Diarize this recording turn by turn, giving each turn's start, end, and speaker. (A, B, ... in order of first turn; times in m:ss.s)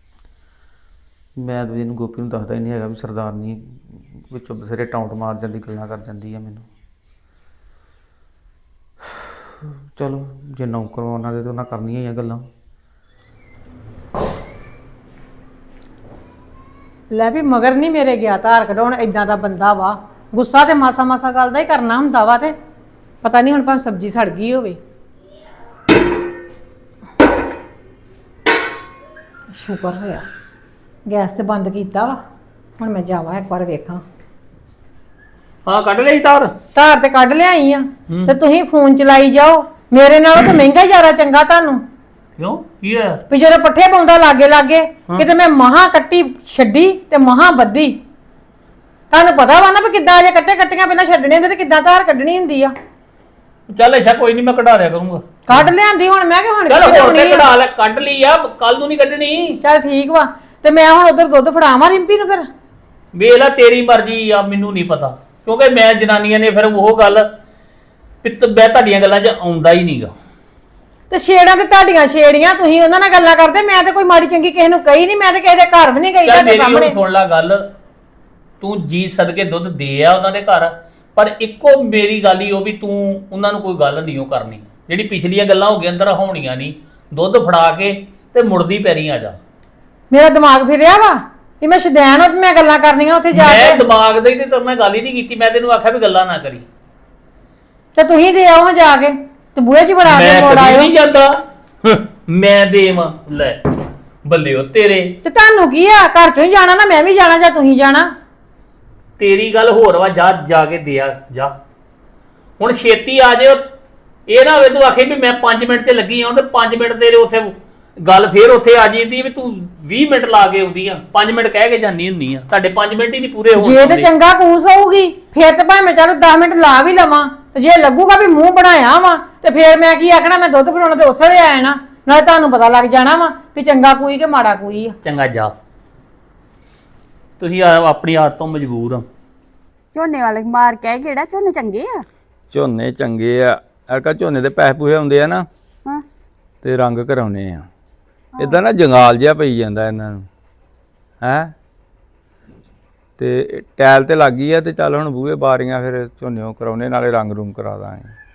0:01.4-0:06.7 A
0:09.0-0:09.3 A
0:10.0-0:12.4 A
0:17.1-0:22.6 B
0:23.2-0:24.8 B
0:29.5-0:30.3 B
0:31.1-0:32.2 B
0:32.8-0:34.0 B
0:35.7-0:36.5 C
0:36.8-0:41.8 B
0:38.1-0:38.4 C
0:42.4-0:43.2 C
0:43.3-0:48.0 B
0:49.1-0:52.7 B
0:53.7-0:55.7 C
0:55.5-0:57.5 B
0:56.7-0:59.6 C
0:59.6-1:02.5 B
1:03.1-1:07.3 C
1:08.2-1:10.1 C
1:11.1-1:17.0 B
1:16.2-1:17.6 C
1:18.6-1:29.4 C
1:30.1-1:33.8 B
1:33.3-1:36.6 C
1:38.0-1:40.9 B
1:40.0-1:41.3 C
1:41.8-1:43.6 C
1:44.2-1:45.1 C
1:45.2-1:48.1 B
1:49.2-1:51.5 C
1:52.6-1:53.6 C
1:54.3-2:04.1 C
2:03.6-2:15.0 B
2:15.0-2:15.5 C
2:17.4-2:19.1 C
2:19.9-2:22.1 D
2:22.5-2:25.5 E
2:26.6-2:27.7 E
2:28.4-2:28.6 D
2:28.4-2:30.3 E
2:31.2-2:31.5 E
2:33.2-2:38.1 E